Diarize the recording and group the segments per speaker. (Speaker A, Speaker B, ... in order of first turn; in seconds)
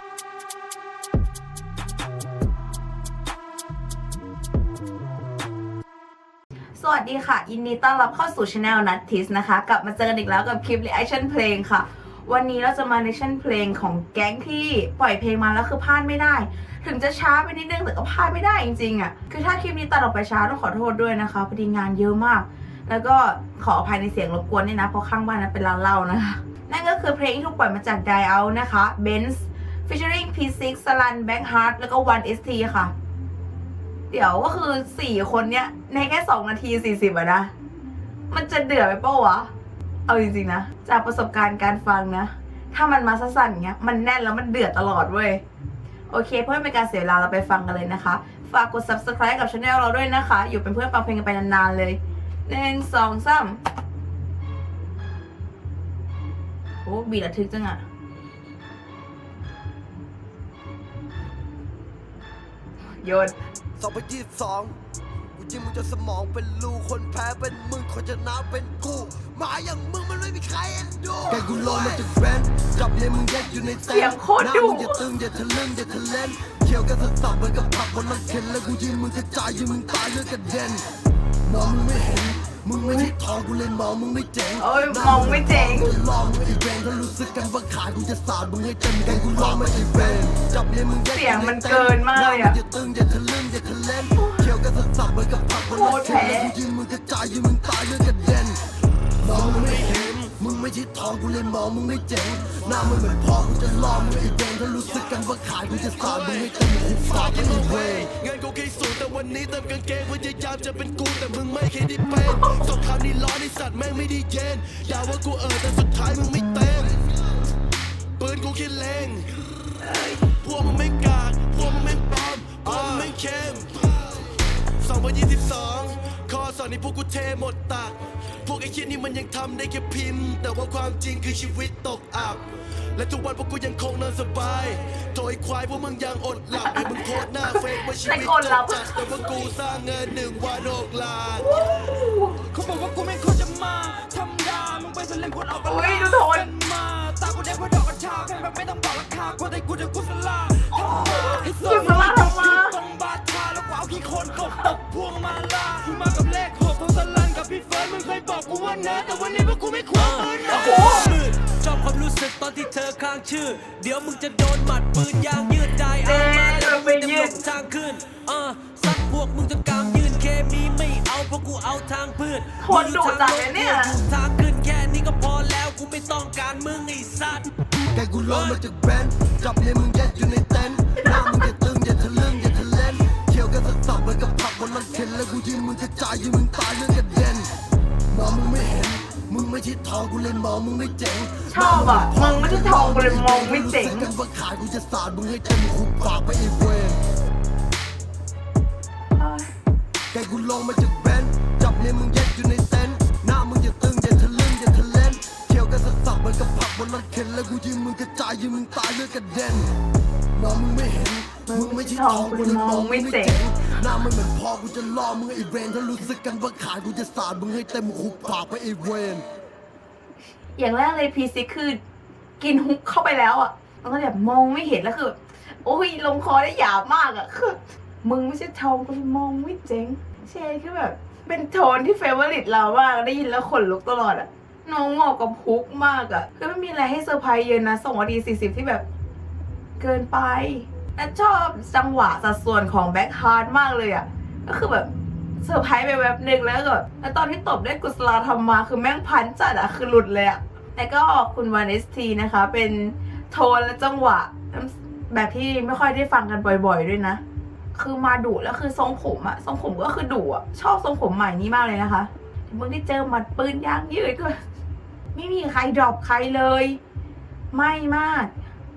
Speaker A: 6.8-32.9, 34.1-37.5, 38.3-39.5, 40.1-45.4, 46.1-53.6, 56.8-57.8, 63.0-63.3, 73.9-75.0, 84.6-86.0, 91.1-92.6, 94.2-94.5, 95.7-96.5, 119.8-120.2, 136.6-139.1, 141.4-142.4, 145.5-146.5, 150.7-152.8, 160.5-161.2, 165.9-167.4, 172.6-174.0, 181.1-181.3, 191.5-194.1, 199.2-199.5, 211.5-213.4, 220.6-221.8, 222.4-238.8, 239.8-244.9, 245.4-257.2, 257.8-264.4, 265.1-266.8, 267.5-268.3
Speaker B: 63.8-64.8, 65.4-80.8, 81.5-98.6, 99.2-108.1, 177.9-187.5, 188.1-197.0, 200.1-209.7, 210.3-219.3
Speaker C: 99.2-100.3, 106.0-117.1, 118.2-119.3, 120.3-124.3, 124.8-141.6
Speaker D: 142.5-161.0
Speaker E: 159.9-177.5, 178.2-178.6